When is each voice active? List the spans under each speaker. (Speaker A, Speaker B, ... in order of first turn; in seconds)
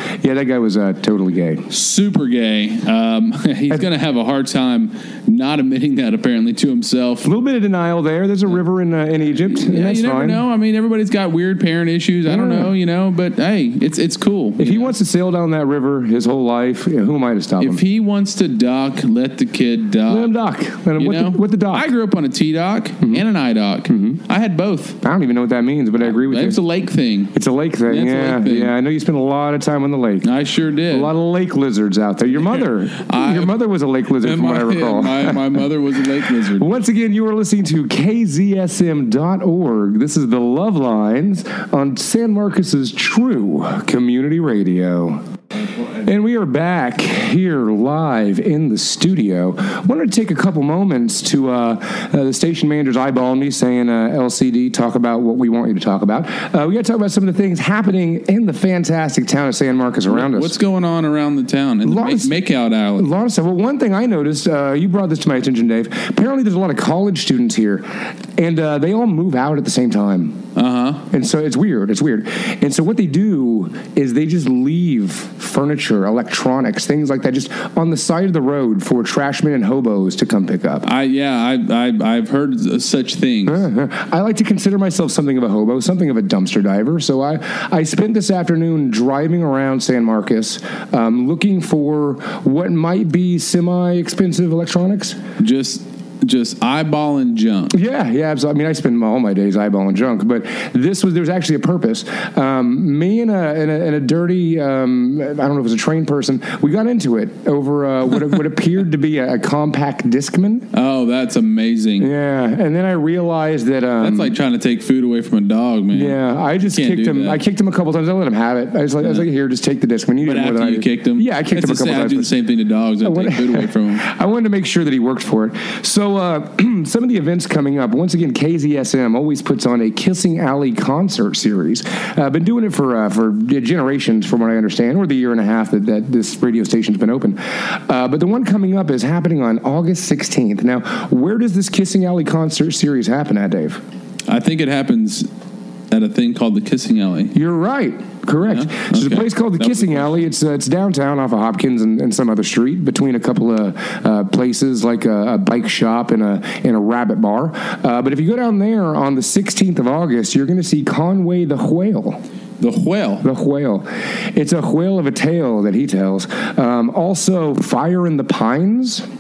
Speaker A: 0.2-1.7, 7.2-10.4, 12.3-12.7, 14.6-17.8, 20.1-21.9, 23.9-24.2, 25.0-26.6, 27.3-30.3, 30.9-35.6, 36.5-45.2, 46.0-60.6, 61.8-62.4, 63.0-70.4, 71.1-80.9, 83.5-95.2, 97.7-110.7, 112.0-114.4, 115.9-122.3, 123.0-143.8, 147.3-162.2, 163.2-169.1
Speaker B: 1.7-7.3, 9.5-14.9, 17.6-20.3, 21.0-25.0, 26.0-27.4, 27.9-28.7, 30.2-31.1, 32.3-33.5, 34.2-36.7, 60.1-63.1, 70.5-71.0, 80.8-83.7, 95.4-97.8, 110.7-112.1, 114.0-117.4, 120.2-124.1, 144.3-145.3, 145.9-147.3, 148.4-150.3, 162.6-163.2